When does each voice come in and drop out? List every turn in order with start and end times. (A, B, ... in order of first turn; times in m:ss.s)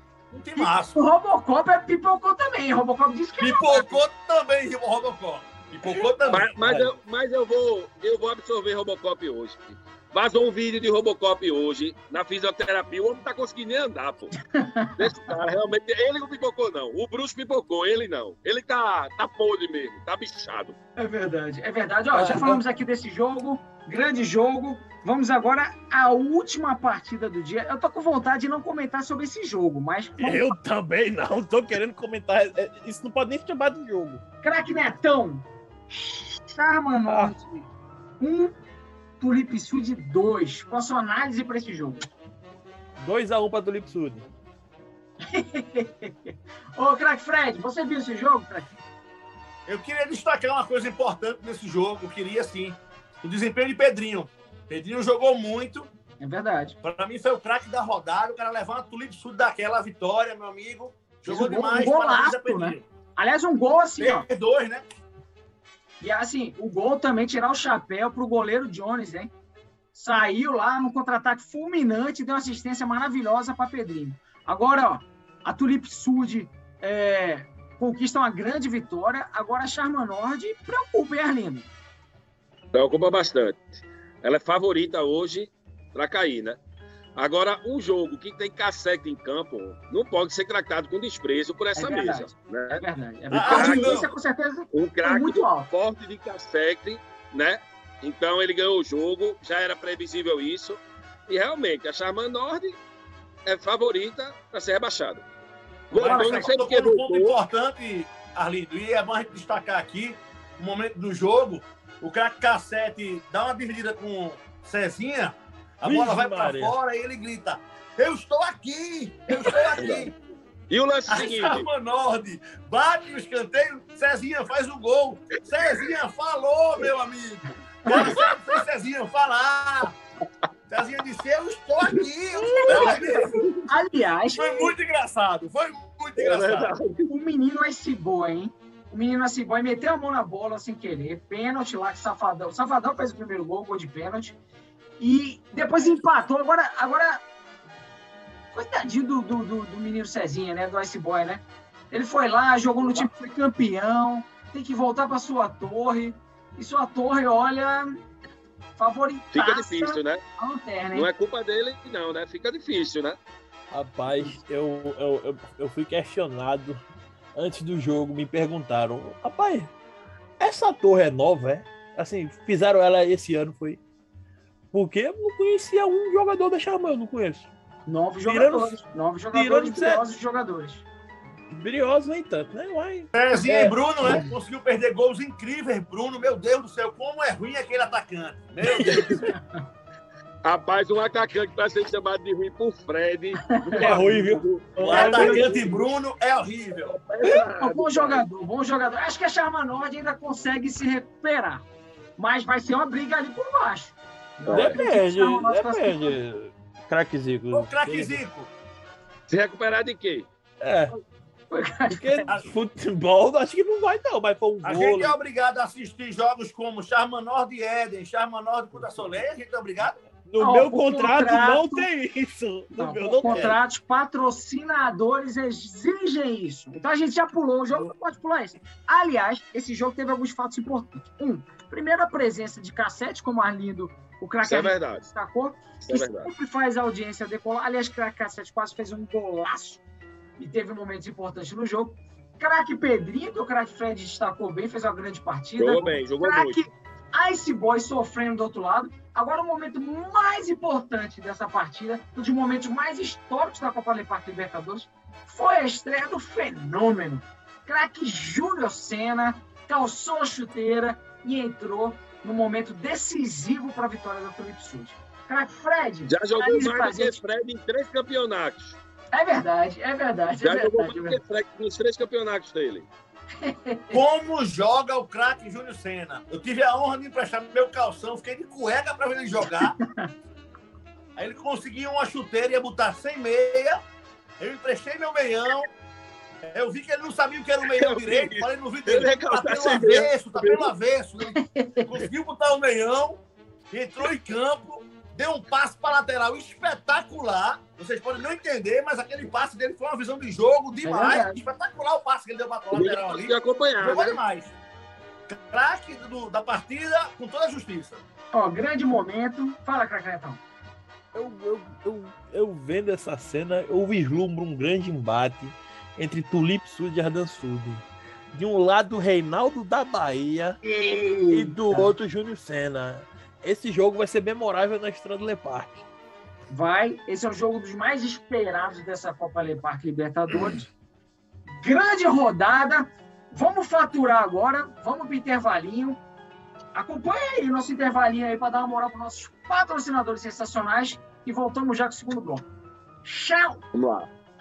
0:00.3-0:01.0 A
0:00.6-0:04.0 B
0:03.4-0:06.5 A
0:06.2-0:06.9 C
0:06.3-0:14.4 D
0:14.5-0:15.1 B
0:15.0-0:20.8 D
0:21.0-0:30.5 B
0:22.1-0:22.6 C
0:30.2-0:34.2 C
0:34.4-0:37.7 B
0:37.1-0:37.4 C
0:38.2-0:38.5 B
0:39.2-0:42.1 B
0:43.0-0:44.3 C
0:45.3-0:48.7 B
0:49.7-0:55.9 A
0:56.2-0:56.8 B
0:56.8-1:02.8 A
1:01.3-1:04.3 B
1:04.0-1:04.8 A
1:06.0-1:09.3 B
1:09.9-1:21.7 B
1:22.7-1:26.6 D
1:27.2-1:34.1 D
1:31.8-1:35.7 B
1:33.3-1:34.1 A
1:34.7-1:42.8 D
1:43.5-1:45.2 D
1:45.9-1:47.4 D
1:45.9-2:00.1 A
1:46.0-1:46.6 C
1:55.8-1:56.7 C
1:59.8-2:00.1 D
2:00.7-2:01.7 D
2:01.1-2:10.0 A
2:07.9-2:08.3 D
2:10.7-2:13.4 A
2:12.7-2:13.4 D
2:13.7-2:14.7 B
2:14.4-2:16.7 A
2:16.2-2:17.1 D
2:17.1-2:24.4 B
2:25.0-2:27.2 B
2:28.5-2:38.0 B
2:38.8-2:41.1 B
2:39.3-2:40.2 D
2:40.9-2:43.2 D
2:43.7-2:46.8 C
2:47.4-2:49.7 C
2:50.4-2:53.8 C
2:54.7-2:57.5 C
2:57.9-3:00.8 B
2:58.3-2:58.8 C
2:59.3-3:00.0 C
3:01.5-3:04.2 C
3:03.1-3:09.3 A
3:08.8-3:09.4 B
3:10.4-3:15.6 D
3:13.5-3:13.9 B
3:13.8-3:15.7 C
3:14.8-3:15.5 B
3:14.9-3:17.0 A
3:16.8-3:18.3 D
3:17.6-3:21.6 B
3:22.2-3:26.2 B
3:24.4-3:24.8 D
3:24.5-3:28.2 C
3:27.5-3:28.5 A
3:29.3-3:30.3 D
3:30.6-3:30.9 C
3:31.5-3:32.3 B
3:32.0-3:35.2 C
3:34.6-3:40.0 A
3:38.7-3:39.1 C
3:40.3-3:43.6 C
3:40.4-3:41.9 B
3:42.8-3:59.8 B
3:54.4-3:55.1 D
3:55.8-3:56.3 D
4:00.4-4:27.2 B
4:05.6-4:06.6 D
4:26.0-4:28.8 D
4:29.1-4:31.2 B
4:30.4-4:32.9 D
4:33.4-4:34.0 B
4:33.9-4:39.8 A
4:41.2-4:43.8 A
4:44.4-4:45.7 A
4:46.5-5:04.6 A
4:47.6-4:50.7 D
4:51.4-4:51.9 B
5:00.8-5:01.4 B
5:02.7-5:04.2 D
5:05.3-5:08.0 A
5:08.3-5:10.4 B
5:11.1-5:20.6 C
5:20.6-5:21.9 B
5:21.3-5:25.8 C
5:26.5-5:30.7 B
5:31.5-5:36.0 B
5:36.7-5:42.5 B
5:43.0-5:43.6 B
5:43.7-5:44.1 D